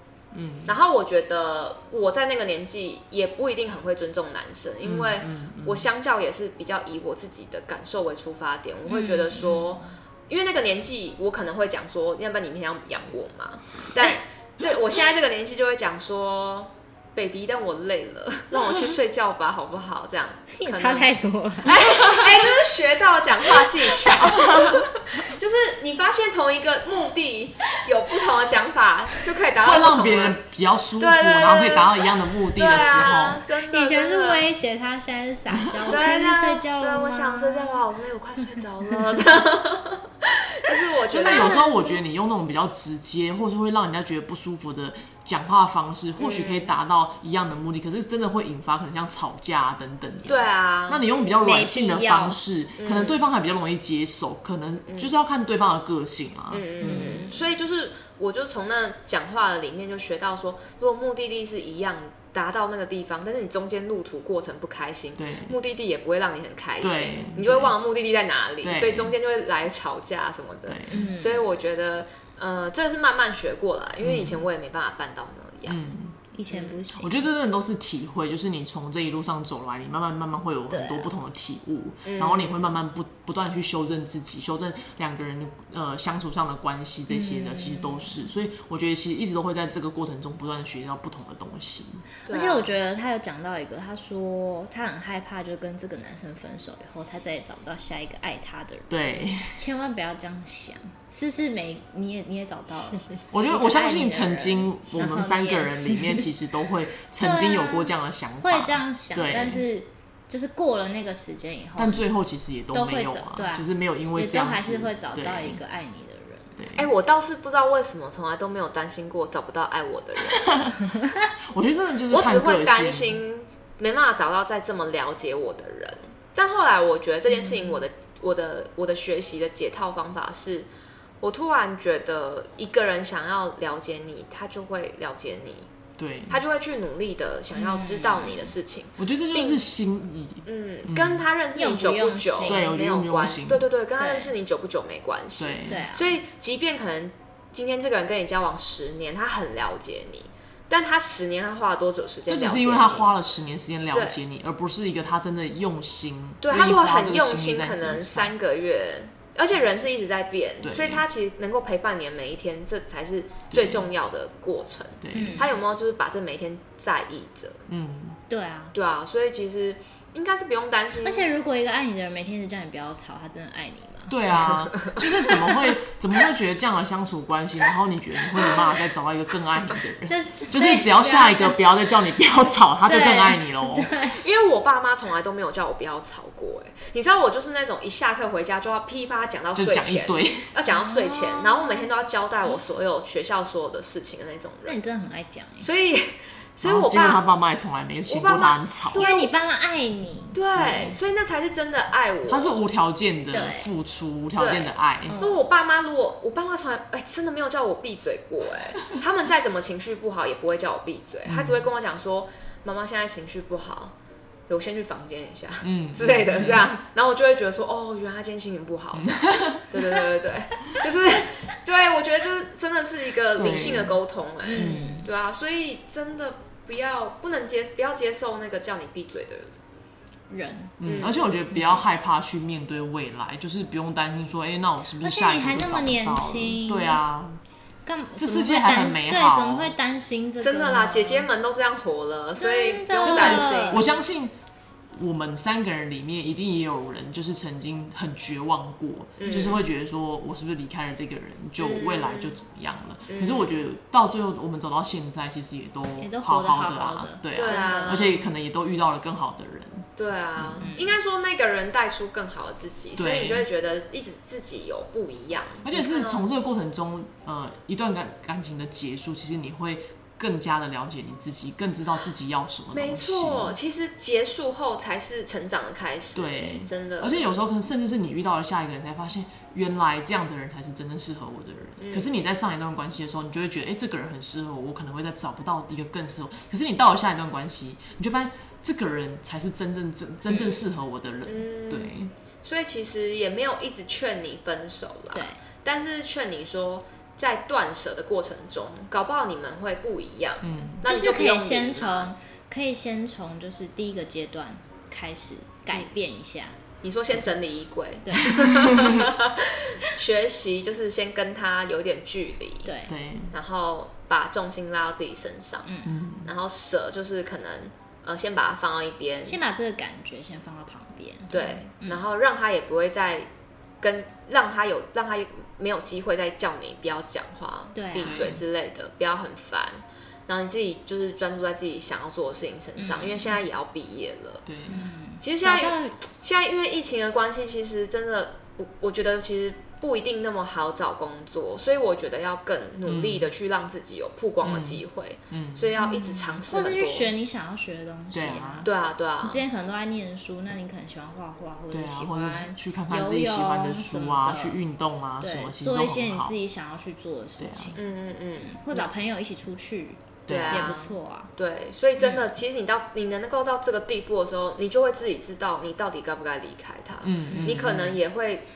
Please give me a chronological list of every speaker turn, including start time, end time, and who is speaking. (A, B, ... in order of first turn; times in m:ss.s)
0:00.3-0:00.8 A
0:00.6-0:21.1 B
0:04.8-0:05.9 A
0:08.9-0:09.8 C
0:20.5-0:21.9 C
0:21.6-0:30.4 B
0:24.3-0:24.8 A
0:29.6-0:33.4 A
0:31.0-0:34.5 B
0:33.4-0:37.8 C
0:35.9-0:41.9 B
0:41.1-0:57.2 A
0:46.2-0:46.7 B
0:50.2-0:51.0 B
0:51.4-0:52.4 C
0:52.8-0:53.2 B
0:54.9-0:55.1 B
0:56.5-1:15.8 B
0:56.8-0:57.4 C
1:05.2-1:05.6 A
1:06.8-1:07.7 A
1:08.6-1:09.2 A
1:10.7-1:11.1 A
1:10.9-1:11.4 C
1:14.0-1:14.4 A
1:15.6-1:16.2 A
1:16.3-1:17.3 C
1:16.5-1:16.7 B
1:16.9-1:32.0 A
1:20.7-1:21.1 C
1:22.0-1:22.6 B
1:27.1-1:28.2 C
1:32.2-1:46.3 C
1:32.2-1:32.7 B
1:38.9-1:39.6 A
1:43.3-1:49.6 A
1:47.2-1:52.0 C
1:51.8-1:55.6 A
1:52.7-1:56.6 C
1:56.6-1:56.9 A
1:56.8-2:00.7 B
2:00.4-2:00.8 A
2:00.9-2:01.3 C
2:01.5-2:03.2 A
2:02.1-2:10.7 B
2:07.3-2:07.8 C
2:11.2-2:15.7 B
2:16.0-2:16.4 A
2:16.3-2:19.7 B
2:17.5-2:18.5 C
2:19.0-2:21.3 A
2:20.4-2:33.1 B
2:21.5-2:22.7 C
2:22.4-2:23.7 A
2:24.0-2:24.3 C
2:25.4-2:25.8 A
2:25.7-2:26.2 C
2:32.3-2:38.3 A
2:33.9-2:34.2 B
2:36.4-2:47.6 B
2:40.6-2:41.0 A
2:43.5-2:43.8 A
2:45.0-2:45.5 A
2:45.1-2:45.5 C
2:47.7-2:48.2 A
2:48.3-2:48.7 C
2:48.7-2:51.3 B
2:51.0-2:54.2 C
2:54.1-3:03.9 A
2:54.7-2:55.0 B
3:00.1-3:01.6 C
3:02.8-3:04.2 C
3:04.1-3:14.8 B
3:09.5-3:10.5 A
3:10.7-3:11.8 C
3:14.6-3:15.7 C
3:15.6-3:17.2 B
3:16.6-3:19.1 A
3:18.1-3:19.3 B
3:18.9-3:20.4 C
3:20.3-3:22.5 B
3:20.5-3:21.0 A
3:22.2-3:25.2 A
3:23.3-3:23.7 C
3:24.4-3:33.9 B
3:25.1-3:25.4 C
3:31.2-3:31.7 A
3:34.5-3:49.5 B
3:35.6-3:36.7 A
3:38.9-3:40.0 A
3:43.3-3:44.0 A
3:44.4-3:45.1 C
3:44.5-3:45.0 A
3:50.3-3:50.8 C
3:50.8-3:57.4 A
3:50.8-3:51.2 B
3:51.5-3:51.8 C
3:55.0-3:57.0 C
3:57.8-4:01.3 C
3:58.2-3:59.7 A
4:00.4-4:03.9 B
4:02.4-4:03.8 C
4:03.0-4:04.3 A
4:04.9-4:20.7 A
4:09.2-4:09.7 B
4:11.6-4:12.3 B
4:13.1-4:13.5 B
4:16.0-4:18.2 C
4:17.3-4:18.2 B
4:20.0-4:26.2 B
4:20.6-4:21.0 C
4:23.0-4:23.4 A
4:25.6-4:33.6 A
4:32.7-4:37.3 B
4:36.1-4:52.1 A
4:41.8-4:42.1 B
4:50.3-4:50.6 B
4:51.2-5:02.1 B
4:55.1-4:55.4 C
5:00.4-5:00.8 A
5:00.8-5:06.6 C
5:06.8-5:12.7 B
5:08.0-5:08.9 C
5:08.3-5:09.0 A
5:12.6-5:12.9 C
5:12.9-5:13.3 A
5:13.3-5:15.7 B
5:15.6-5:16.0 C
5:15.8-5:16.3 A
5:16.2-5:19.4 B
5:19.2-5:22.0 C
5:21.3-5:23.3 B
5:23.8-5:34.4 B
5:27.7-5:28.4 C
5:28.0-5:28.4 A
5:32.8-5:33.4 C
5:34.4-5:34.8 A
5:34.6-5:36.0 C
5:35.2-5:47.1 B
5:42.8-5:43.3 A
5:44.4-5:45.8 A
5:45.8-5:48.7 C
5:48.1-5:48.7 A
5:48.6-5:49.4 B
5:49.2-5:54.6 C
5:51.7-5:56.3 A
5:55.2-5:57.8 C
5:57.4-5:57.7 A
5:57.8-5:58.9 B
5:58.4-6:01.3 C
6:00.3-6:00.8 A
6:00.3-6:08.4 B
6:07.0-6:08.0 A